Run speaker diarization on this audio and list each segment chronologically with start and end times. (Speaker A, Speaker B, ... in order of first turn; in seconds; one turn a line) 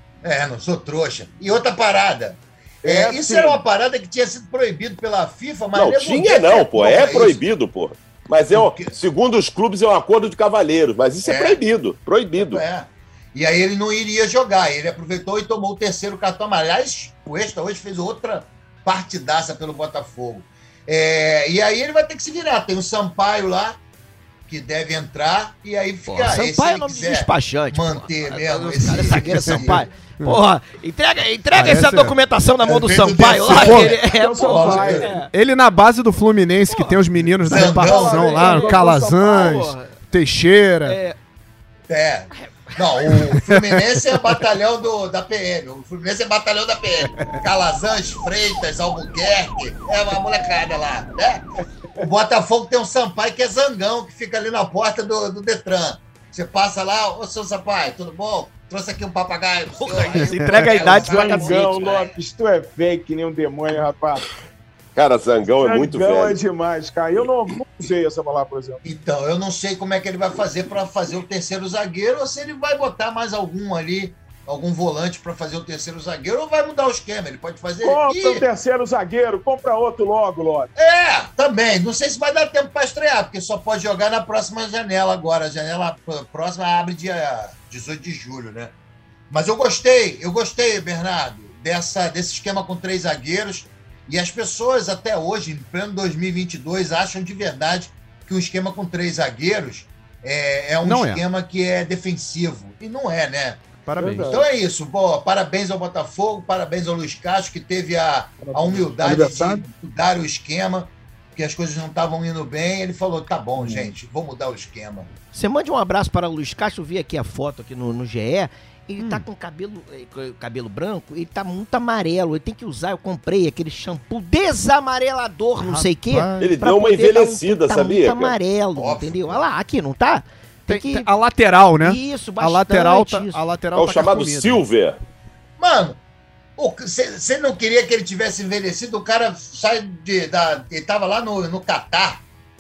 Speaker A: 0.2-7.4
Speaker B: 2.8-3.6
Speaker C: 5.8-12.6
Speaker A: 8.5-9.0
Speaker A: 11.2-11.6
Speaker A: 12.4-23.8
Speaker A: 24.5-29.9
Speaker D: 26.1-35.3
Speaker E: 29.3-30.4
Speaker E: 31.5-32.2
Speaker A: 32.6-35.1
Speaker E: 33.6-34.0
Speaker B: 34.0-35.2
Speaker E: 35.2-41.0
Speaker D: 36.7-37.0
Speaker A: 37.4-38.5
Speaker B: 37.5-39.4
Speaker D: 38.3-39.9
Speaker D: 40.8-41.2
Speaker A: 41.9-51.5
Speaker E: 43.3-43.8
Speaker A: 52.0-62.1
Speaker D: 59.8-61.9
Speaker E: 60.2-60.7
Speaker B: 60.9-64.2
Speaker C: 65.0-66.4
Speaker B: 65.6-68.8
Speaker A: 68.8-78.5
Speaker B: 77.8-80.7
Speaker A: 80.8-88.7
Speaker A: 89.3-103.7
Speaker E: 100.9-101.2
Speaker E: 103.8-104.4
Speaker B: 104.0-104.4
Speaker A: 104.2-115.1
Speaker B: 108.5-109.7
Speaker B: 113.6-113.9
Speaker D: 115.3-131.1
Speaker E: 119.0-119.2
Speaker E: 125.6-126.6
Speaker C: 126.4-128.3
Speaker A: 128.8-129.4
Speaker E: 130.7-134.6
Speaker D: 131.8-133.4
Speaker C: 133.8-135.0
Speaker A: 135.6-136.0
Speaker A: 136.6-142.2